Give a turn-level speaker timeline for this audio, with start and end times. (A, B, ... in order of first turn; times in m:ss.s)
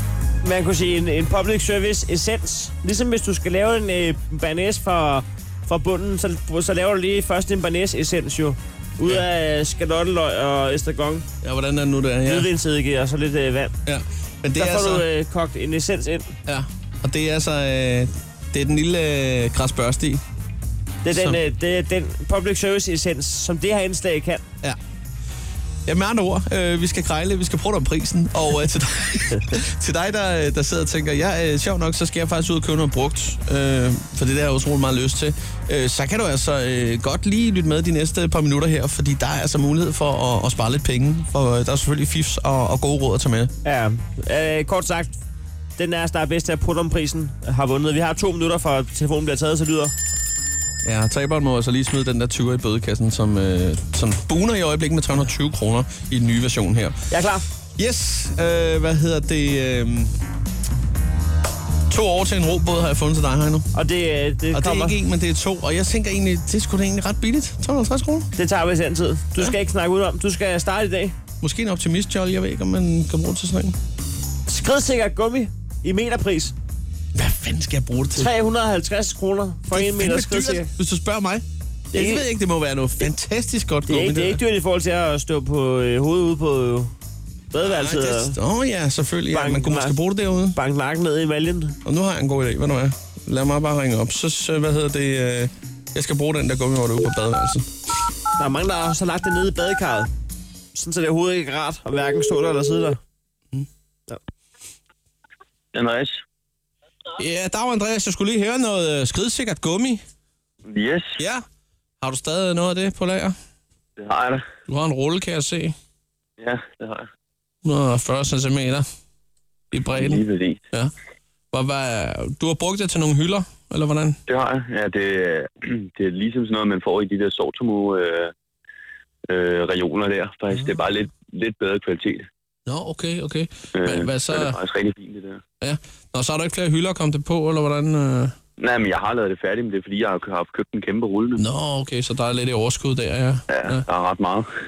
0:00.4-0:11.2 A
0:11.4-0:12.5 B
0:12.2-0:13.7 A
0:13.8-0:15.1 B
0:14.6-0:16.3 A
0:16.4-0:20.2 B
0:21.0-0:24.4 A
0:21.1-0:21.4 B
0:25.9-0:43.5 B
0:43.6-0:45.2 A
0:45.8-0:49.9 A
0:50.8-0:57.0 B
0:57.1-0:57.4 A
0:57.8-1:00.1 B
1:01.9-1:03.7 B
1:03.7-1:05.0 A
1:04.5-1:08.3 B
1:08.4-1:11.1 A
1:11.4-1:13.8 B
1:14.5-1:16.5 A
1:17.1-1:18.3 B
1:18.2-1:20.7 A
1:19.7-1:24.4 B
1:21.9-1:22.2 A
1:23.9-1:26.9 A
1:27.5-1:28.3 A
1:27.6-1:30.6 B
1:29.3-1:30.0 A
1:30.5-1:31.8 A
1:31.8-1:37.7 B
1:38.4-1:40.1 A
1:40.7-1:43.0 A
1:45.7-1:46.2 C
1:47.2-1:50.0 B
1:50.7-1:51.1 C
1:51.2-1:51.4 B
1:52.0-1:53.4 B
1:54.0-1:54.4 C
1:54.7-1:55.7 B
1:56.4-1:57.0 C
1:57.6-1:58.9 B
1:59.7-2:00.9 B
2:00.0-2:00.6 C
2:01.5-2:04.2 B
2:04.3-2:08.3 C
2:09.3-2:12.3 C
2:12.7-2:14.6 B
2:13.8-2:15.4 C
2:15.6-2:18.3 B
2:18.6-2:21.4 C
2:21.4-2:23.8 B
2:23.5-2:24.5 C